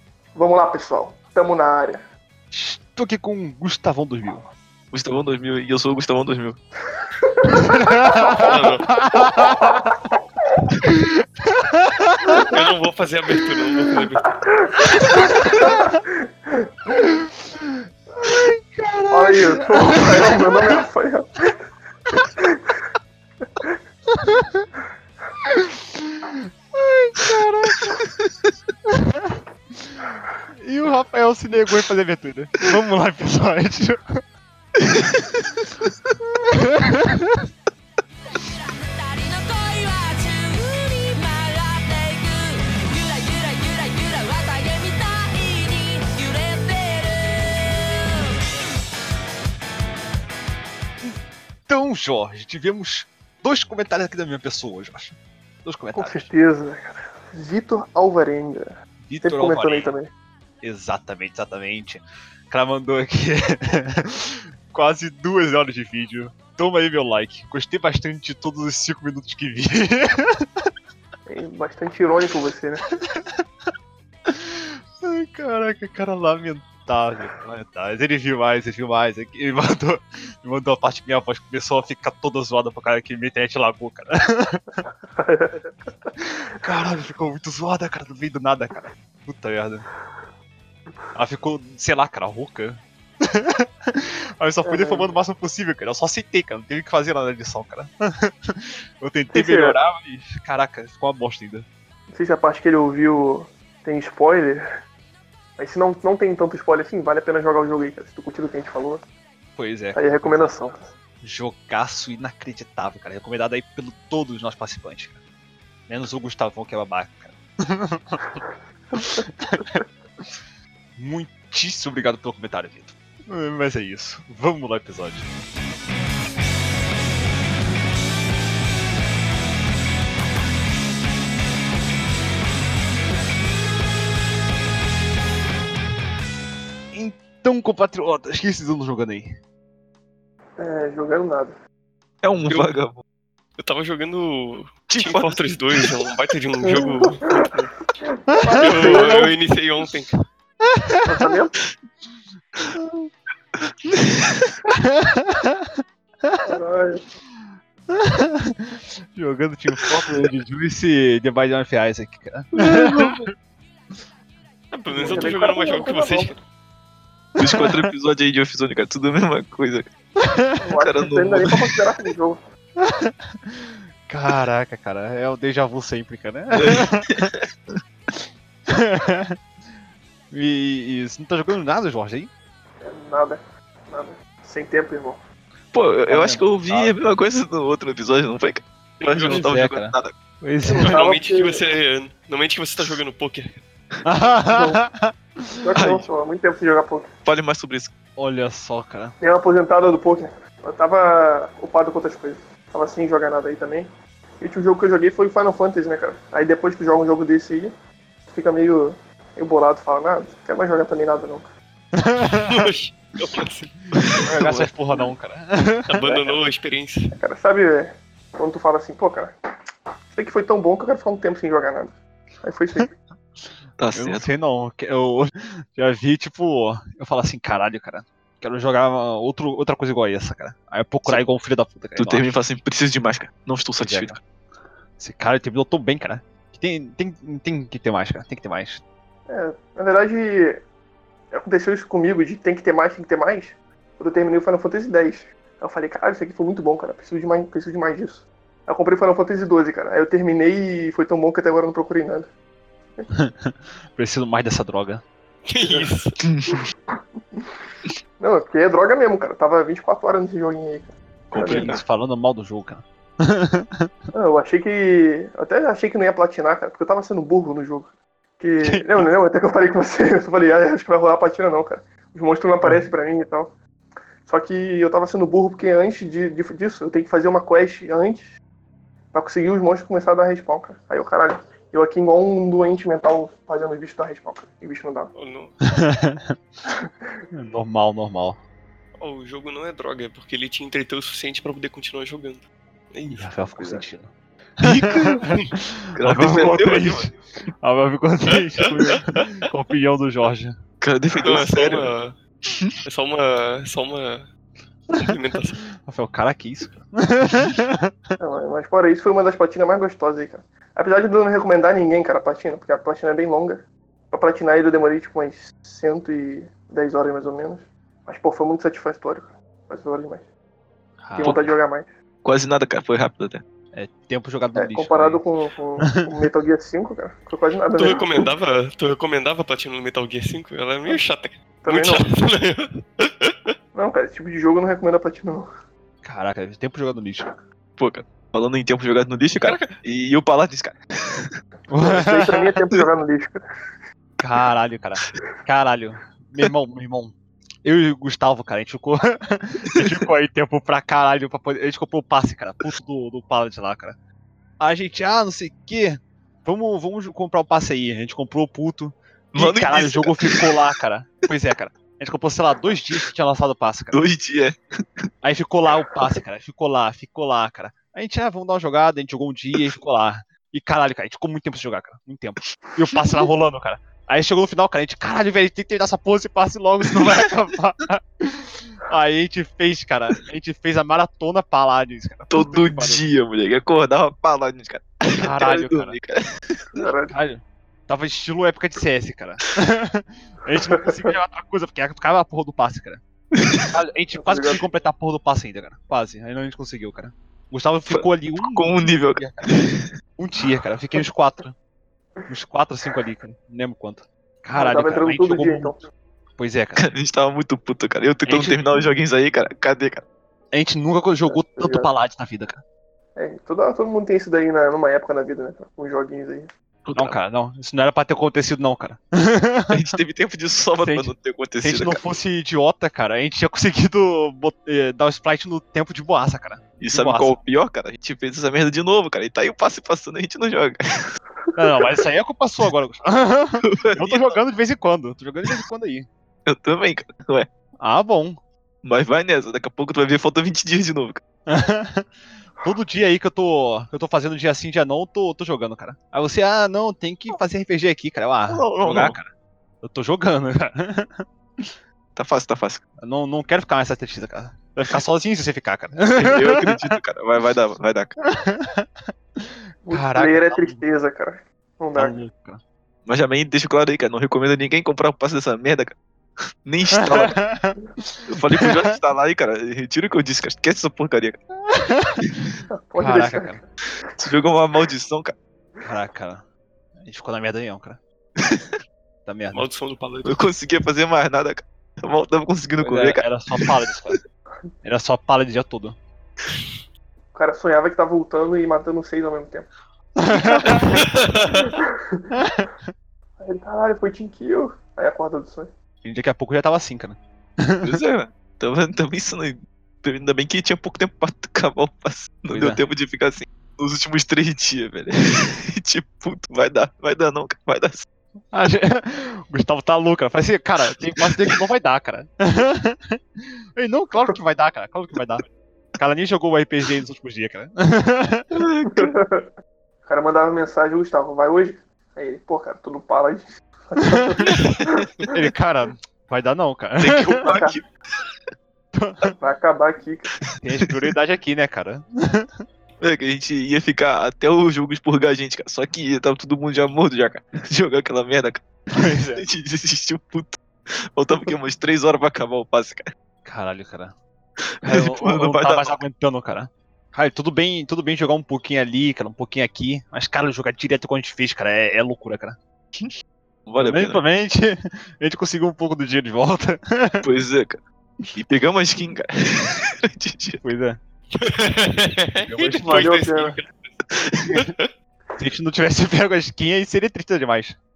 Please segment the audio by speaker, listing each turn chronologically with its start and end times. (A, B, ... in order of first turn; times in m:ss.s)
0:00.4-0:02.0 A
0:02.5-0:04.5 B
0:04.9-0:06.6 C
0:07.4-0:08.4 A
0:07.7-0:10.0 B
0:08.3-0:08.9 D
0:09.4-0:10.0 A
0:10.9-0:12.4 B
0:12.3-0:12.5 A
0:12.4-0:14.4 D
0:14.4-0:16.7 A
0:15.5-0:16.0 B
0:17.0-0:20.6 B
0:19.1-0:21.6 A
0:22.2-0:22.7 A
0:24.1-0:24.6 B
0:25.4-0:28.0 B
0:28.9-0:34.2 B
0:36.2-0:37.5 B
0:38.4-0:48.4 E
0:51.7-0:56.3 B
0:56.0-1:00.1 A
0:59.0-0:59.9 B
1:00.6-1:10.7 B
1:11.3-1:12.9 A
1:13.1-1:13.4 B
1:14.3-1:24.7 B
1:25.2-1:26.1 A
1:26.2-1:29.9 B
1:31.1-1:41.7 B
1:34.6-1:35.2 A
1:39.3-1:39.8 A
1:42.1-1:44.7 A
1:45.6-1:49.0 A
1:49.6-1:50.5 B
1:50.0-1:50.9 A
1:51.2-1:55.2 B
1:55.9-1:58.4 B
1:59.0-1:59.8 B
2:01.0-2:05.4 B
2:16.9-2:19.4 B
2:20.6-2:21.6 A
2:22.2-2:23.0 C
2:22.5-2:22.7 D
2:23.6-2:27.7 D
2:24.9-2:25.9 C
2:26.7-2:29.3 A
2:28.4-2:29.2 B
2:28.6-2:30.1 D
2:30.6-2:31.0 B
2:31.0-2:31.5 A
2:32.8-2:33.1 B
2:33.6-2:34.6 C
2:34.7-2:36.5 B
2:36.4-2:37.0 A
2:37.9-2:43.2 B
2:42.6-2:43.2 C
2:44.7-2:46.4 D
2:44.9-2:46.4 A
2:47.4-2:47.9 B
2:47.4-2:49.9 C
2:50.2-2:50.5 B
2:50.6-2:52.4 A
2:50.8-2:51.7 C
2:52.8-2:57.3 B
2:56.5-2:57.8 C
2:58.7-2:59.4 B
3:00.3-3:02.3 B
3:02.8-3:05.2 A
3:05.7-3:10.1 C
3:06.1-3:07.0 B
3:09.0-3:09.5 D
3:09.2-3:11.0 B
3:10.7-3:11.6 A
3:10.7-3:13.6 D
3:14.0-3:15.5 B
3:14.4-3:14.8 A
3:15.6-3:17.1 A
3:15.8-3:16.1 C
3:17.2-3:17.9 C
3:18.2-3:19.2 B
3:19.2-3:27.7 A
3:28.3-3:31.5 A
3:32.0-3:32.7 B
3:32.4-3:33.9 D
3:33.9-3:34.7 C
3:34.2-3:36.0 B
3:35.9-3:37.1 D
3:36.1-3:36.3 A
3:37.2-3:39.3 A
3:40.1-3:43.0 A
3:43.8-3:44.3 C
3:43.9-3:52.3 B
3:52.0-3:54.2 C
3:53.8-3:54.2 B
3:55.0-3:58.8 B
3:59.3-4:00.6 A
4:01.3-4:12.3 A
4:13.1-4:15.0 B
4:15.5-4:16.2 D
4:16.2-4:16.7 C
4:18.2-4:21.8 A
4:21.3-4:21.8 C
4:21.4-4:23.9 B
4:24.1-4:33.5 A
4:28.6-4:29.1 B
4:34.2-4:38.3 A
4:39.1-4:45.1 A
4:45.2-4:45.6 D
4:45.7-4:46.4 B
4:47.3-4:48.4 B
4:49.0-4:53.8 D
4:53.1-5:00.6 B
4:54.6-4:55.2 C
4:55.2-4:55.5 D
4:56.0-4:57.1 C
4:58.4-4:59.0 D
5:00.8-5:01.9 C
5:01.2-5:02.2 D
5:02.5-5:02.7 C
5:02.8-5:04.3 D
5:04.9-5:05.6 D
5:05.8-5:07.9 B
5:08.2-5:20.3 A
5:21.0-5:21.4 B
5:21.2-5:21.9 A
5:22.2-5:23.4 C
5:23.7-5:25.2 B
5:24.6-5:28.2 A
5:27.8-5:33.6 D
5:31.6-5:32.1 A
5:33.8-5:35.5 A
5:36.0-5:37.3 B
5:37.8-5:41.3 C
5:39.4-5:39.8 D
5:41.7-5:42.5 B
5:41.8-5:43.4 A
5:44.2-5:54.0 B
5:54.6-6:04.0 B
5:59.3-6:00.5 C
6:03.9-6:05.1 C
6:05.2-6:23.0 B
6:13.0-6:13.2 C
6:22.3-6:26.8 C
6:25.1-6:26.0 B
6:26.7-6:27.1 A
6:27.1-6:33.0 B
6:30.7-6:31.2 A
6:33.4-6:33.7 C
6:33.7-6:41.5 B
6:34.1-6:34.7 A
6:37.9-6:39.9 C
6:42.3-6:45.8 B
6:44.6-6:45.8 A
6:46.4-6:46.9 B
6:46.8-6:50.0 C
6:48.3-6:48.6 B
6:50.5-6:52.6 B
6:51.3-6:51.9 A
6:53.2-6:56.5 A
6:56.8-6:57.2 C
6:57.0-7:00.0 B
6:59.7-7:02.0 C
7:00.8-7:07.4 B
7:06.8-7:11.2 C
7:11.6-7:16.1 B
7:13.6-7:14.4 C
7:16.5-7:17.5 C
7:17.8-7:18.4 B
7:18.8-7:21.2 C
7:21.5-7:22.1 B
7:22.6-7:31.7 B
7:28.5-7:29.2 C
7:32.2-7:32.8 C
7:33.0-7:37.0 B
7:36.2-7:38.2 C
7:38.2-7:40.8 B
7:39.8-7:42.2 A
7:42.0-7:42.6 B
7:43.1-7:46.0 C
7:46.6-7:47.4 C
7:46.9-7:48.9 B
7:48.2-7:51.4 C
7:51.7-7:53.6 B
7:52.7-7:53.6 A
7:54.2-7:55.4 C
7:55.8-7:56.4 B
7:57.0-7:58.0 B
7:58.4-7:58.7 C
7:59.3-7:59.7 B
7:59.5-8:00.4 D
8:00.2-8:04.2 C
8:02.8-8:04.2 B
8:04.8-8:06.0 B
8:07.3-8:09.7 A
8:10.2-8:11.1 B
8:10.3-8:12.3 A
8:11.0-8:11.7 D
8:12.3-8:12.8 B
8:13.4-8:15.7 A
8:16.0-8:18.0 B
8:17.8-8:28.1 C
8:22.5-8:22.8 B
8:28.5-8:35.4 B
8:31.2-8:31.5 C
8:36.0-8:38.5 B
8:38.5-8:39.1 C
8:38.9-8:39.5 A
8:40.0-8:45.3 A
8:44.4-8:45.0 C
8:45.3-8:47.6 B
8:47.0-8:47.8 C
8:47.4-8:47.8 A
8:48.9-8:49.4 B
8:49.4-8:50.3 A
8:50.6-8:52.6 B
8:53.0-9:03.1 C
8:58.9-8:59.4 B
9:03.4-9:04.2 B
9:04.6-9:06.0 C
9:04.8-9:12.6 B
9:13.7-9:14.2 C
9:13.8-9:17.2 B
9:17.2-9:17.8 C
9:18.3-9:20.6 C
9:20.6-9:21.0 B
9:21.3-9:24.9 D
9:22.4-9:23.1 B
9:22.8-9:23.6 A
9:24.4-9:24.7 B
9:25.4-9:27.8 B